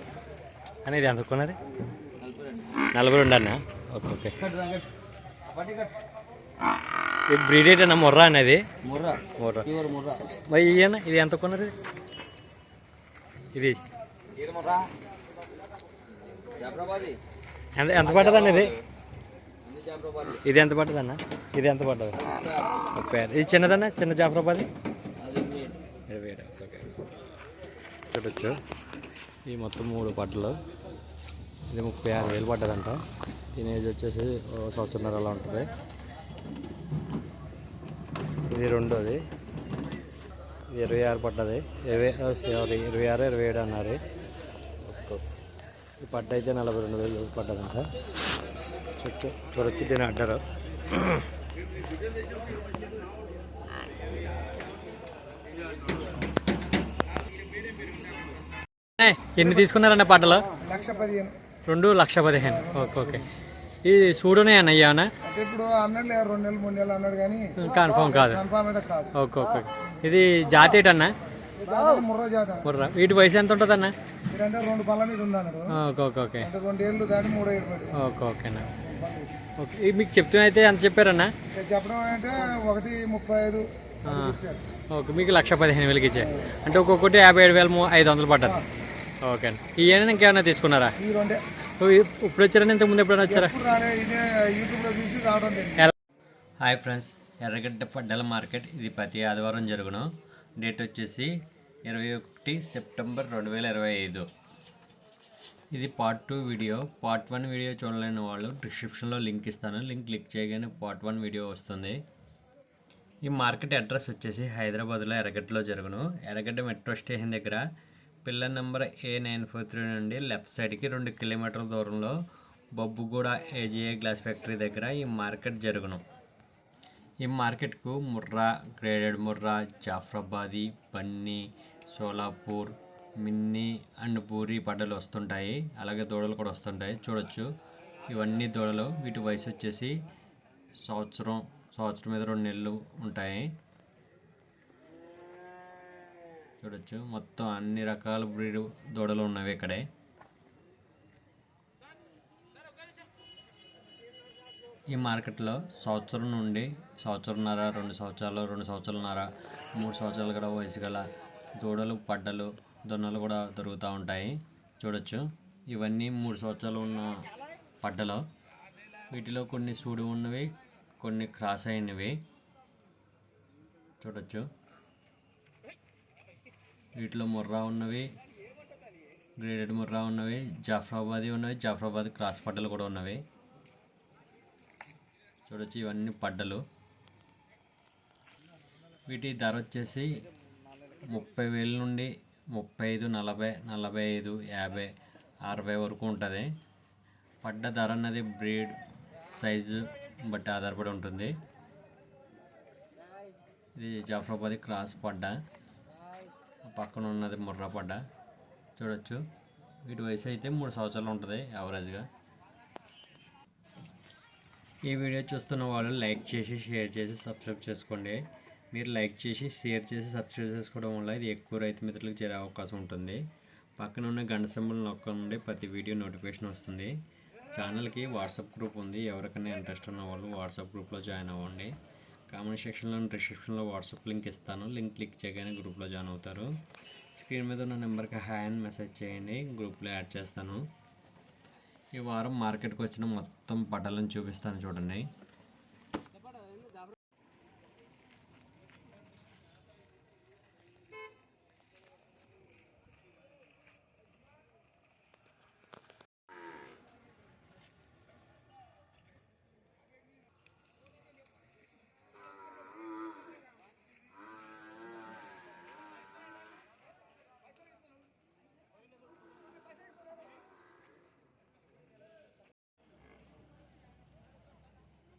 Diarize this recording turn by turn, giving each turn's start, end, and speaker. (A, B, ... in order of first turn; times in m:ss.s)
0:00.9-0:01.6 A
0:02.9-0:04.5 A
0:04.5-0:04.8 B
0:05.6-0:05.9 B
0:07.3-0:11.7 A
0:08.9-0:09.2 B
0:09.8-0:10.2 B
0:13.5-0:13.8 A
0:14.4-0:14.9 B
0:16.6-0:17.2 B
0:17.8-0:18.8 A
0:19.7-0:20.4 B
0:20.4-0:22.3 A
0:22.3-0:22.6 B
0:22.9-0:24.7 A
0:25.2-0:25.8 B
0:26.1-0:26.9 A
0:28.1-0:28.6 A
0:29.5-0:30.6 A
0:31.7-0:33.0 A
0:33.6-0:35.7 A
0:38.5-0:39.2 A
0:40.7-0:44.0 A
0:44.9-0:45.2 A
0:46.0-0:47.9 A
0:49.0-0:50.4 A
0:59.0-1:00.5 A
1:00.6-1:01.4 C
1:01.7-1:03.2 A
1:02.7-1:03.1 C
1:03.8-1:05.1 A
1:05.2-1:07.5 C
1:07.6-1:08.4 A
1:08.0-1:09.1 C
1:09.2-1:11.1 A
1:11.6-1:12.6 C
1:12.6-1:13.9 A
1:14.3-1:15.7 C
1:15.7-1:16.5 A
1:16.4-1:17.9 C
1:17.9-1:18.7 A
1:18.9-1:19.4 C
1:19.6-1:21.3 A
1:21.5-1:24.6 C
1:24.0-1:24.4 A
1:24.9-1:28.6 A
1:29.2-1:31.0 A
1:31.0-1:31.4 C
1:31.8-1:33.6 A
1:33.4-1:35.8 C
1:36.6-1:41.3 A
1:41.9-1:44.3 A
1:45.7-1:52.0 A
1:53.2-1:57.6 A
1:58.2-2:02.2 A
2:02.8-2:06.0 A
2:07.2-2:17.5 A
2:18.1-2:20.0 A
2:20.8-2:23.5 A
2:26.6-2:29.9 A
2:34.9-2:41.0 A
2:41.6-2:47.1 A
2:47.8-2:48.2 A
2:49.1-2:52.2 A
2:54.0-2:54.5 A
2:57.0-2:58.1 A
2:59.4-3:03.2 A
3:05.5-3:06.6 A
3:09.1-3:10.2 A
3:11.0-3:14.9 A
3:15.4-3:16.5 A
3:17.4-3:18.8 A
3:19.3-3:21.4 A
3:23.8-3:25.4 A
3:26.7-3:28.0 A
3:28.8-3:29.2 A
3:29.9-3:32.1 A
3:34.9-3:43.2 A
3:43.8-3:46.9 A
3:47.5-3:51.7 A
3:52.3-3:56.5 A
3:57.2-4:00.7 A
4:02.0-4:05.1 A